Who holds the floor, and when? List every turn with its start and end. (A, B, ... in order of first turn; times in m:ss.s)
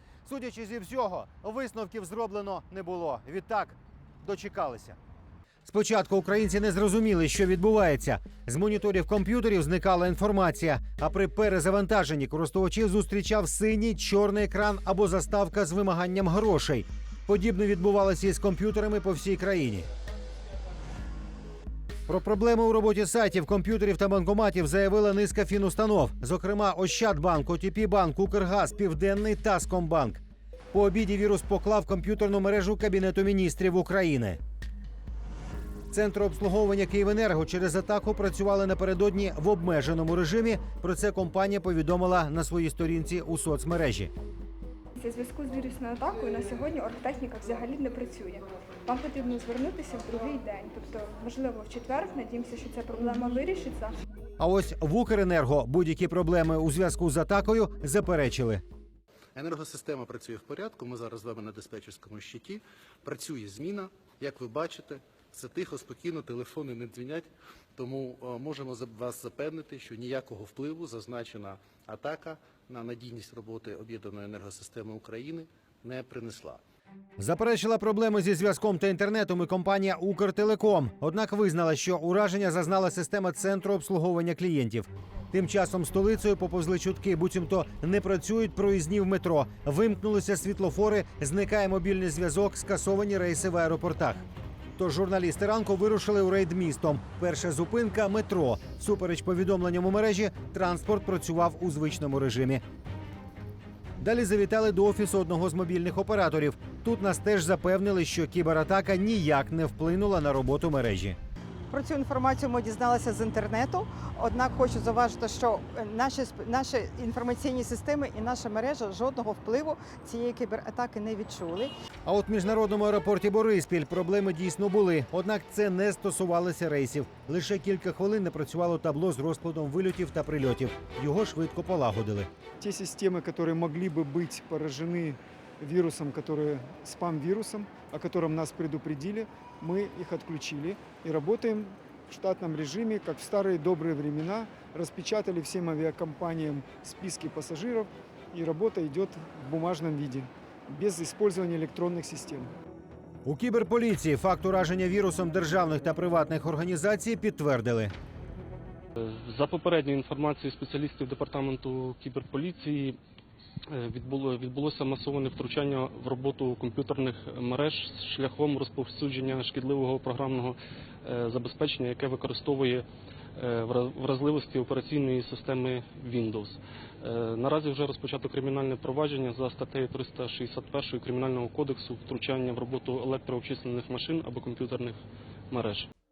0:00.2-0:05.0 A
0:05.6-0:19.9 A
0:22.1-0:30.2 A
0:30.7-0:34.4 A
0:35.9-0:44.1 A
0:44.9-0:54.0 B
0:54.4-0:58.6 A
0:59.3-1:16.6 C
1:17.2-1:34.2 A
1:34.8-1:42.6 A
1:44.0-1:51.2 A
1:51.7-2:01.7 D
2:02.0-2:12.3 A
2:12.6-2:32.5 E
2:33.2-2:37.9 A
2:39.0-2:43.0 F
2:43.7-2:52.8 F
2:53.4-3:05.0 F
3:05.5-3:05.9 F